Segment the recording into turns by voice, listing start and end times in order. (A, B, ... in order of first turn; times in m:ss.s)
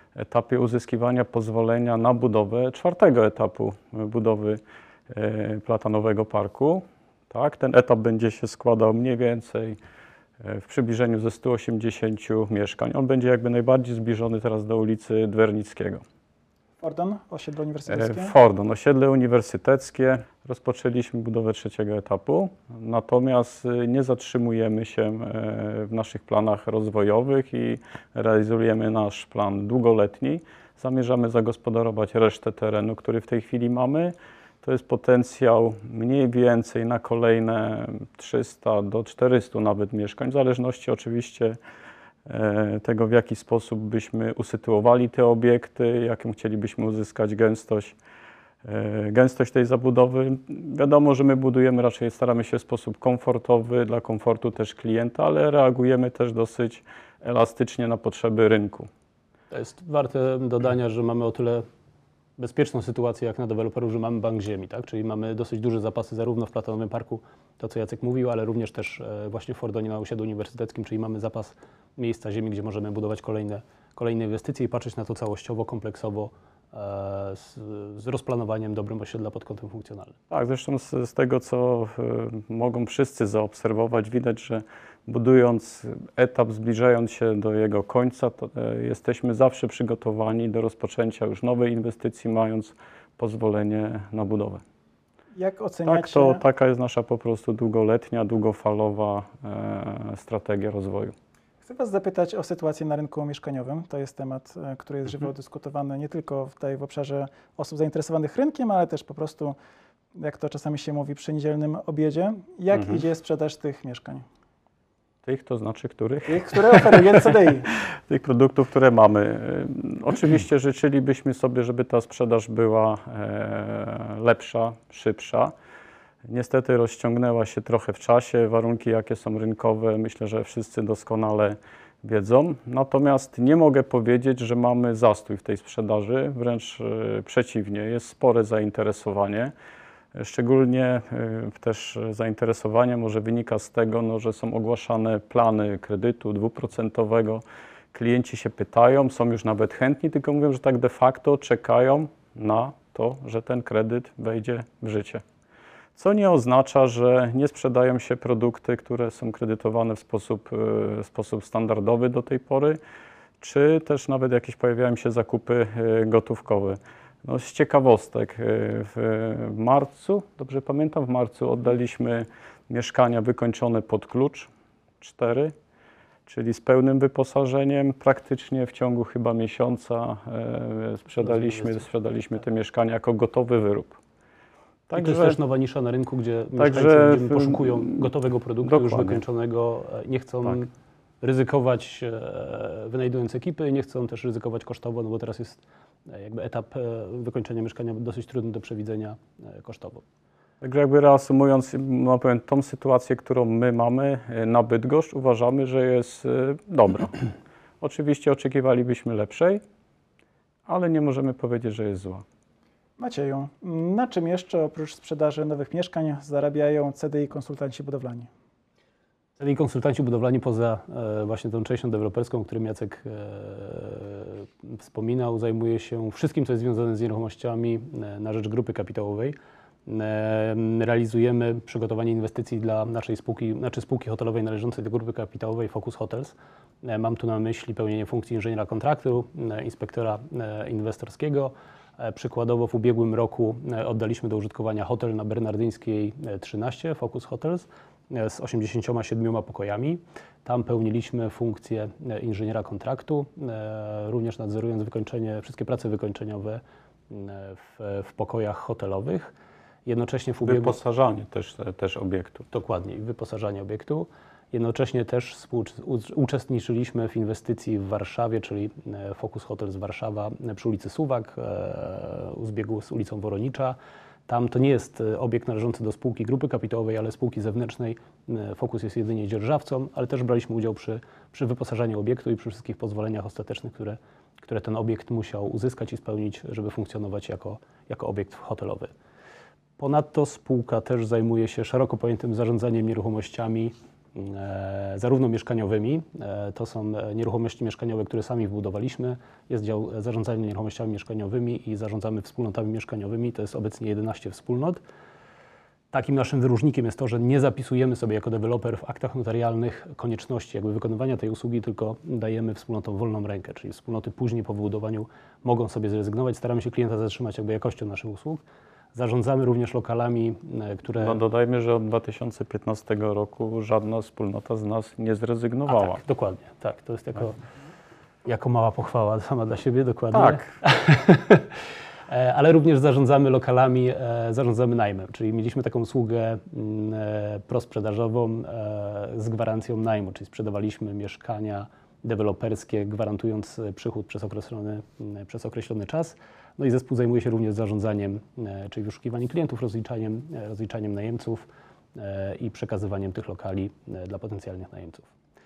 0:00.2-0:09.8 A
0:10.4-0:16.0 A
0:16.8-0:18.4 B
0:17.9-0:41.6 A
0:42.3-0:48.0 A
0:48.6-0:58.9 A
0:59.5-1:01.6 C
1:02.4-1:20.2 C
1:20.3-1:34.6 A
1:35.3-1:36.4 B
1:35.8-1:41.1 A
1:41.6-1:49.6 B
1:50.2-1:54.2 B
1:52.8-1:53.0 A
1:55.2-2:05.5 A
1:56.2-1:57.7 B
2:06.3-2:19.5 A
2:20.2-2:35.2 A
2:36.0-2:42.8 A
2:43.4-2:54.5 A
2:55.0-2:55.5 A
2:56.3-3:04.0 A
3:01.2-3:01.8 C
3:04.9-3:05.4 A
3:05.0-3:20.0 C
3:06.6-3:08.1 A
3:08.6-3:09.2 A
3:20.6-3:27.3 A
3:27.8-3:29.6 A
3:30.7-3:32.2 A
3:33.0-3:38.3 B
3:39.4-4:19.3 C
4:19.8-4:20.8 C
4:20.4-4:22.5 A
4:22.5-4:48.9 C
4:49.8-5:04.8 C
5:05.9-5:18.4 C
5:18.9-5:21.2 C
5:21.0-5:26.0 A
5:25.7-5:27.4 C
5:28.2-5:55.1 C
5:30.1-5:30.5 A